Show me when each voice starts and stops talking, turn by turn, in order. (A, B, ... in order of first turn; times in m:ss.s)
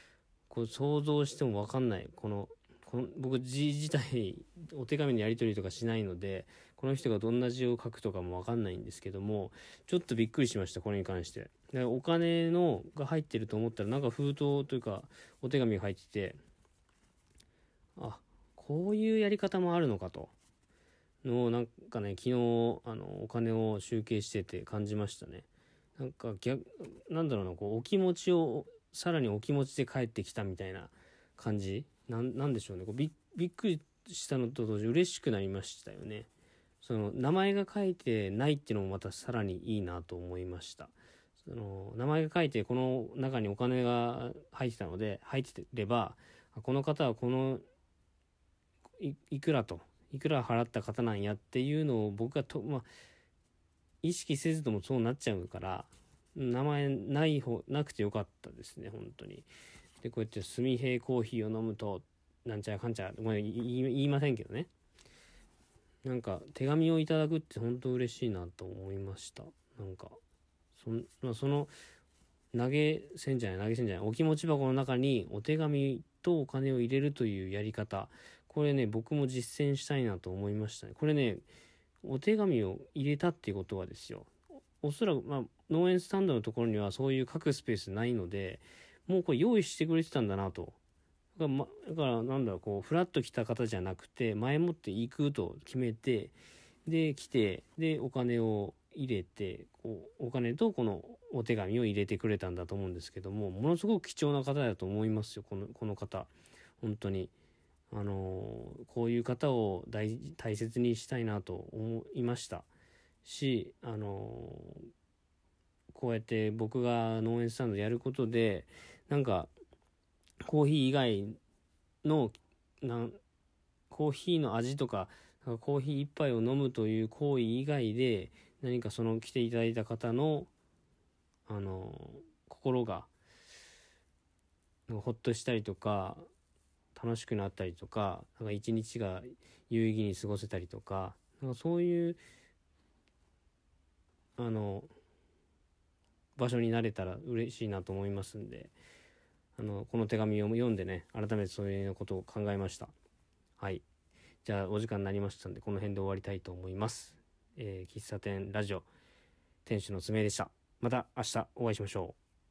0:00.5-0:16.4 A
0:18.0-0:20.3 A
0:21.2-0:36.3 A
0:36.8-0:47.6 A
0:49.0-0:52.9 A
0:54.0-0:59.5 A
1:00.0-1:04.7 A
1:06.0-1:10.2 A
1:10.8-1:11.7 A
1:12.5-1:21.4 A
1:22.0-1:30.8 A
1:31.4-1:36.4 A
1:36.9-1:47.3 A
1:47.9-1:52.7 A
1:53.2-1:54.8 A
1:55.9-1:59.5 A
2:00.4-2:01.4 A
2:02.0-2:03.2 A
2:03.9-2:10.5 A
2:11.5-2:13.1 A
2:14.9-2:16.2 A
2:17.0-2:22.2 A
2:24.4-2:24.9 A
2:26.4-2:28.7 A
2:29.6-2:32.9 A
2:33.6-2:33.8 A
2:34.4-2:38.9 A
2:39.6-2:42.2 A